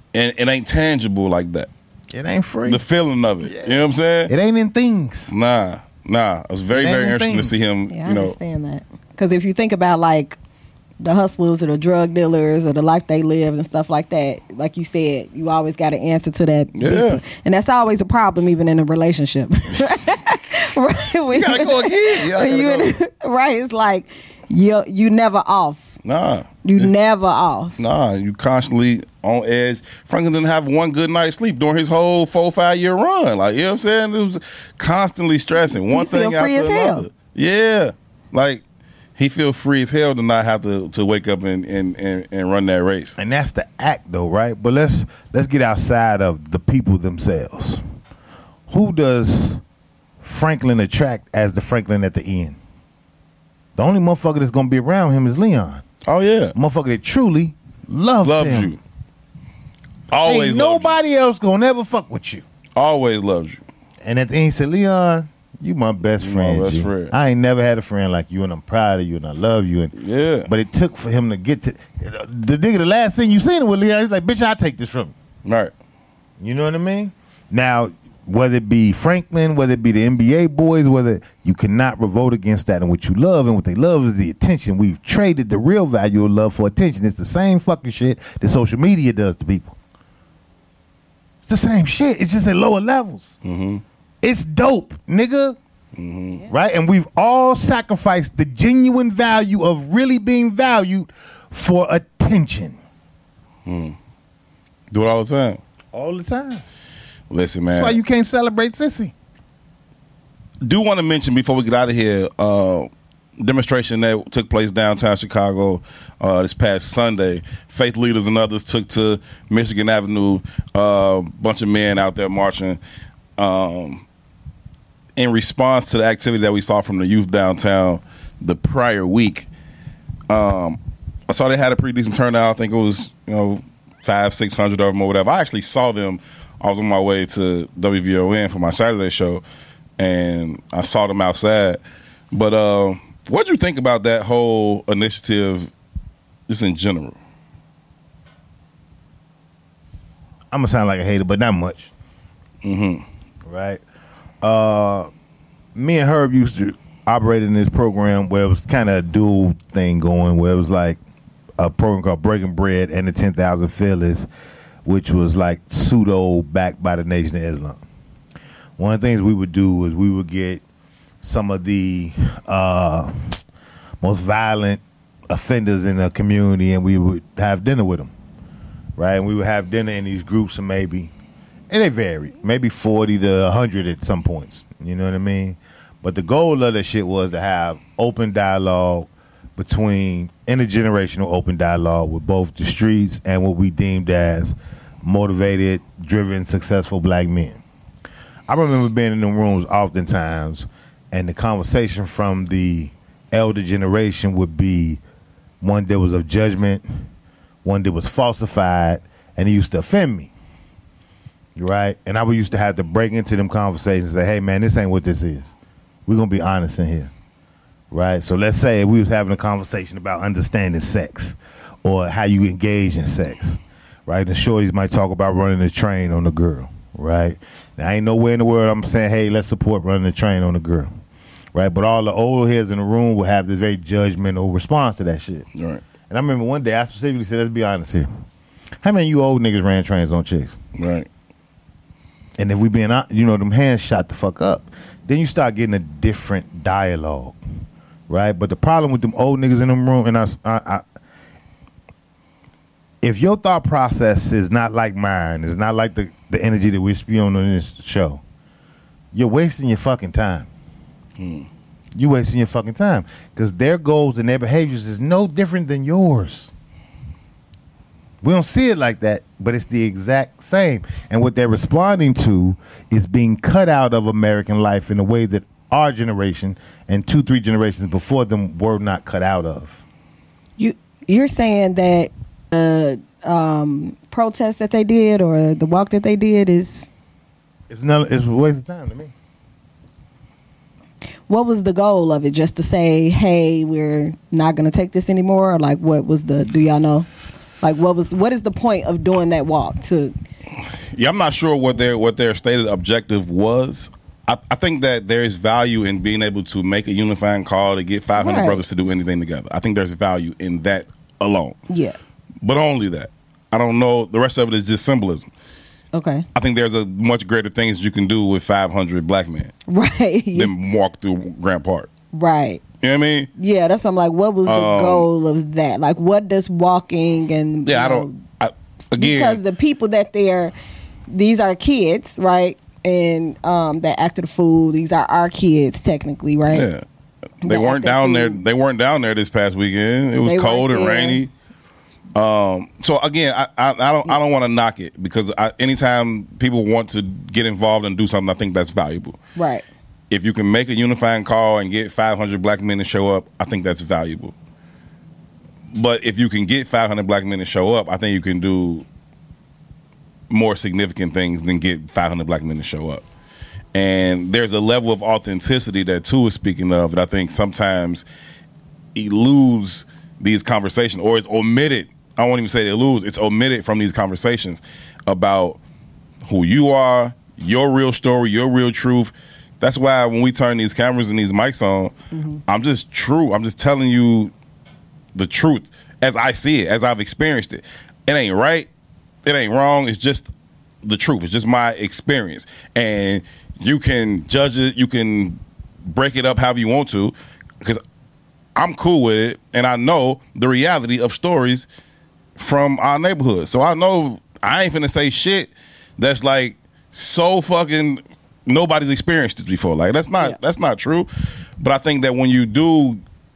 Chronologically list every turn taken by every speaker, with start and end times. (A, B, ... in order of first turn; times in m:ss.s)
0:00.1-0:01.7 A
0:02.1-0:02.8 B
0:02.6-0:04.3 A
0:03.4-0:05.3 B
0:05.3-0:08.4 A
0:06.7-0:07.6 B
0:07.9-0:10.4 C
0:11.0-0:25.9 C
0:16.7-0:17.2 A
0:21.3-0:23.0 A
0:26.0-0:26.9 A
0:26.6-0:27.8 C
0:27.8-0:38.6 A
0:35.9-0:37.0 C
0:39.2-0:43.2 A
0:43.2-0:47.8 B
0:48.7-0:49.6 B
0:50.2-0:52.6 B
0:53.8-0:55.8 B
0:56.0-0:56.5 A
0:56.5-0:58.7 B
0:58.2-0:58.8 A
1:00.1-1:01.0 A
1:00.2-1:02.4 B
1:02.8-1:03.6 A
1:04.0-1:09.9 B
1:06.2-1:07.1 A
1:10.0-1:10.5 A
1:10.5-1:15.1 B
1:15.4-1:15.7 A
1:16.4-1:29.8 B
1:31.4-1:33.4 B
1:33.4-1:33.8 A
1:34.2-1:35.6 B
1:35.9-1:36.4 A
1:36.5-1:42.8 B
1:43.6-1:44.0 A
1:44.9-1:45.6 A
1:45.9-1:46.6 B
1:47.3-1:48.0 A
1:47.7-1:49.1 B
1:50.6-2:02.8 A
2:03.4-2:04.0 A
2:05.2-2:09.5 A
2:10.3-2:19.4 A
2:20.0-2:25.7 A
2:26.5-2:27.2 A
2:30.5-2:31.9 B
2:32.6-2:33.0 A
2:33.4-2:33.8 B
2:34.4-2:35.1 B
2:35.7-2:41.0 B
2:41.6-2:44.3 B
2:44.8-2:47.8 B
2:48.8-2:50.6 B
2:51.2-2:53.4 B
2:54.0-2:58.1 B
2:59.0-3:01.1 B
3:01.7-3:17.6 B
3:18.5-3:25.0 B
3:25.6-3:26.8 B
3:27.6-3:30.3 B
3:31.6-3:35.5 B
3:36.1-3:37.1 B
3:37.9-3:50.9 B
3:51.5-3:55.5 B
3:55.5-3:55.8 A
3:56.1-3:58.1 B
3:58.8-4:00.6 B
4:00.7-4:01.1 A
4:02.4-4:07.4 B
4:08.1-4:10.8 B
4:13.0-4:18.2 B
4:19.1-4:20.5 B
4:21.2-4:21.5 A
4:22.0-4:26.5 B
4:28.2-4:39.8 B
4:40.6-4:46.9 C
4:47.7-4:49.1 B
4:51.3-4:57.1 C
4:57.6-5:00.1 C
5:00.6-5:11.6 A
5:08.2-5:08.6 C
5:11.7-5:12.0 C
5:12.4-5:15.3 A
5:15.9-5:16.2 C
5:16.3-5:19.5 A
5:19.7-5:20.5 C
5:20.3-5:21.9 A
5:22.1-5:22.6 C
5:22.8-5:23.3 A
5:23.4-5:28.2 C
5:24.4-5:25.1 A
5:27.6-5:29.4 A
5:29.0-5:30.5 C
5:31.1-5:36.7 C
5:36.5-5:36.8 A
5:37.4-5:41.3 A
5:37.4-5:38.4 C
5:40.2-5:41.2 C
5:42.1-5:49.2 A
5:49.4-5:49.6 C
5:50.1-5:54.3 A
5:55.7-5:58.8 A
6:00.3-6:03.0 A
6:03.7-6:08.0 A
6:08.9-6:15.6 A
6:16.2-6:21.9 A
6:22.1-6:22.4 C
6:22.5-6:24.3 A
6:25.1-6:28.7 A
6:29.2-6:30.3 A
6:30.8-6:37.8 A
6:38.5-6:41.7 A
6:42.4-6:53.0 A